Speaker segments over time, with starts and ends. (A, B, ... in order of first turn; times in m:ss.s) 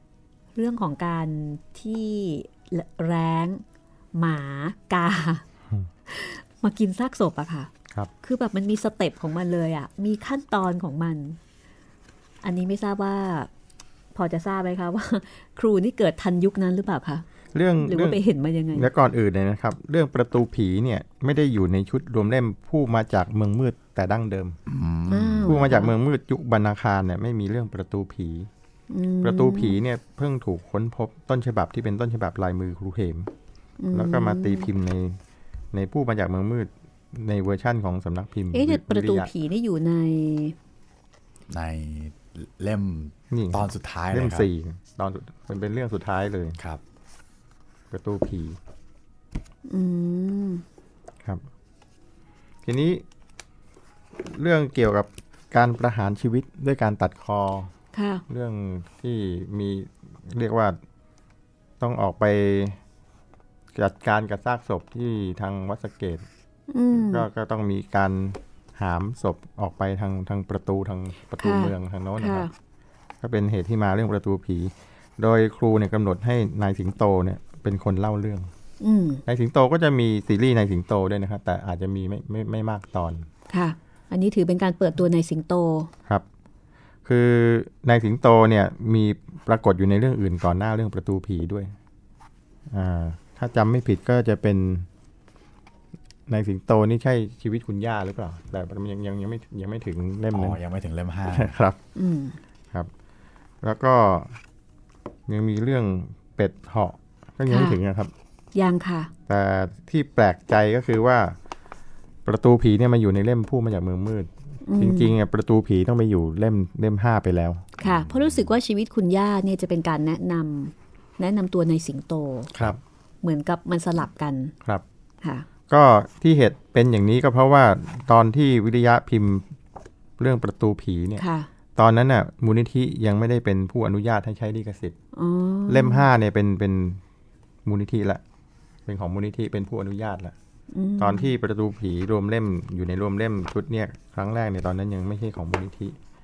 0:00.5-0:03.6 A
0:04.1-0:05.4 A
0:06.1-0:07.7 A
0:08.2-0:11.4 A
0:12.4-0:13.5 A
0:14.1-0:17.2 A
0:17.5-0:18.2 B
0:17.8-0:18.9 A
0:18.7-0:24.6 B
0:24.7-0:25.6 C
0:25.1-0:25.9 A
0:25.4-0:28.5 B
0:28.9-0:29.8 A
0:29.2-0:33.3 B
0:33.8-0:34.7 A
0:33.9-0:35.2 B
0:35.7-0:39.3 B
0:38.5-0:40.6 A
0:41.5-0:44.5 C
0:43.3-0:46.6 B
0:47.9-0:48.6 B
0:49.7-0:50.6 A
0:52.6-0:53.0 B
0:54.2-0:57.7 B
0:57.9-0:58.2 A
0:58.3-1:00.8 B
1:01.8-1:02.8 B
1:03.7-1:06.2 B
1:06.7-1:07.2 A
1:06.9-1:12.5 B
1:11.4-1:12.5 A
1:13.2-1:18.5 B
1:18.8-1:19.2 A
1:19.2-1:23.3 B
1:23.5-1:25.9 A
1:27.0-1:31.7 B
1:32.7-1:34.9 B
1:36.3-1:40.6 B
1:40.3-1:41.5 C
1:41.3-1:41.8 B
1:41.9-1:42.4 A
1:43.6-1:44.4 B
1:45.3-1:48.1 B
1:47.5-1:47.8 A
1:48.5-1:49.1 A
1:49.3-1:51.4 B
1:52.2-1:57.6 B
1:54.6-1:55.1 A
1:57.8-1:58.4 C
1:57.8-2:02.5 A
2:03.2-2:04.5 A
2:05.2-2:05.5 A
2:05.7-2:09.5 B
2:10.2-2:11.2 B
2:11.2-2:11.5 A
2:11.8-2:14.9 B
2:15.1-2:16.1 A
2:15.7-2:17.0 B
2:17.6-2:18.2 B
2:18.8-2:20.3 B
2:20.7-2:21.3 A
2:21.0-2:26.0 B